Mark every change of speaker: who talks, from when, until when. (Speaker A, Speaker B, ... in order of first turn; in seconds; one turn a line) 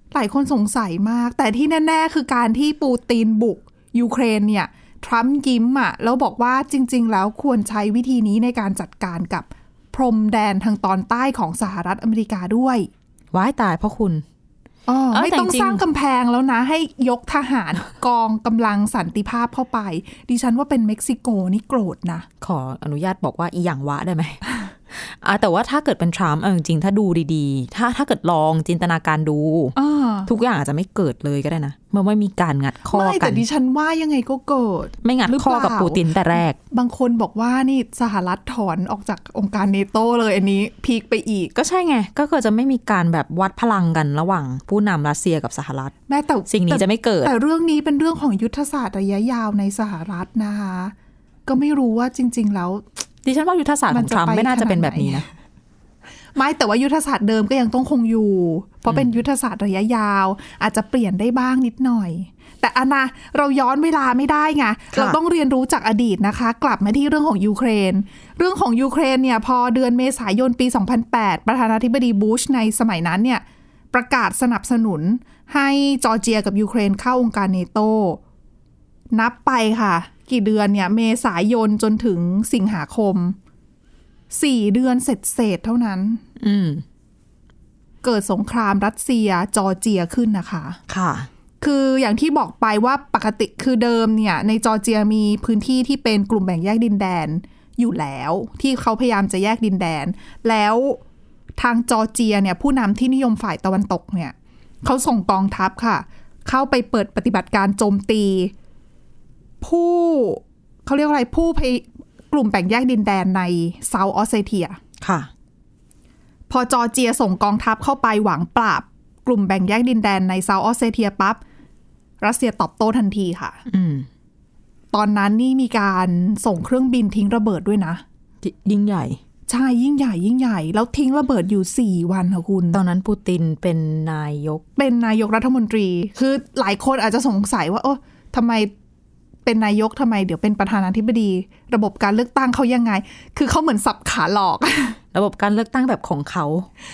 Speaker A: 0.1-12.9
Speaker B: 13.3-14.2
Speaker A: 14.9-22.3
Speaker B: 15.1-15.8
Speaker B: 22.4-33.4
Speaker A: 29.8-30.3
Speaker A: 32.9-36.0
Speaker B: 35.0-36.6
Speaker A: 36.7-41.5
Speaker B: 41.5-46.0
Speaker A: 46.1-50.9
Speaker B: 46.5-47.3
Speaker A: 51.5-52.8
Speaker B: 53.2-55.3
Speaker A: 53.9-55.3
Speaker A: 56.4-78.2
Speaker B: 64.9-65.2
Speaker A: 79.1-83.4
Speaker A: 84.3-86.2
Speaker B: 86.4-86.8
Speaker A: 88.0-90.8
Speaker B: 90.9-91.3
Speaker A: 91.6-101.0
Speaker A: 101.6-108.5
Speaker A: 109.6-114.8
Speaker B: 115.0-115.3
Speaker A: 116.5-121.4
Speaker A: 122.2-123.6
Speaker B: 123.7-124.1
Speaker A: 124.9-128.0
Speaker B: 128.4-129.2
Speaker A: 129.5-132.8
Speaker B: 132.7-134.6
Speaker A: 134.8-138.7
Speaker A: 139.5-145.0
Speaker B: 145.1-146.7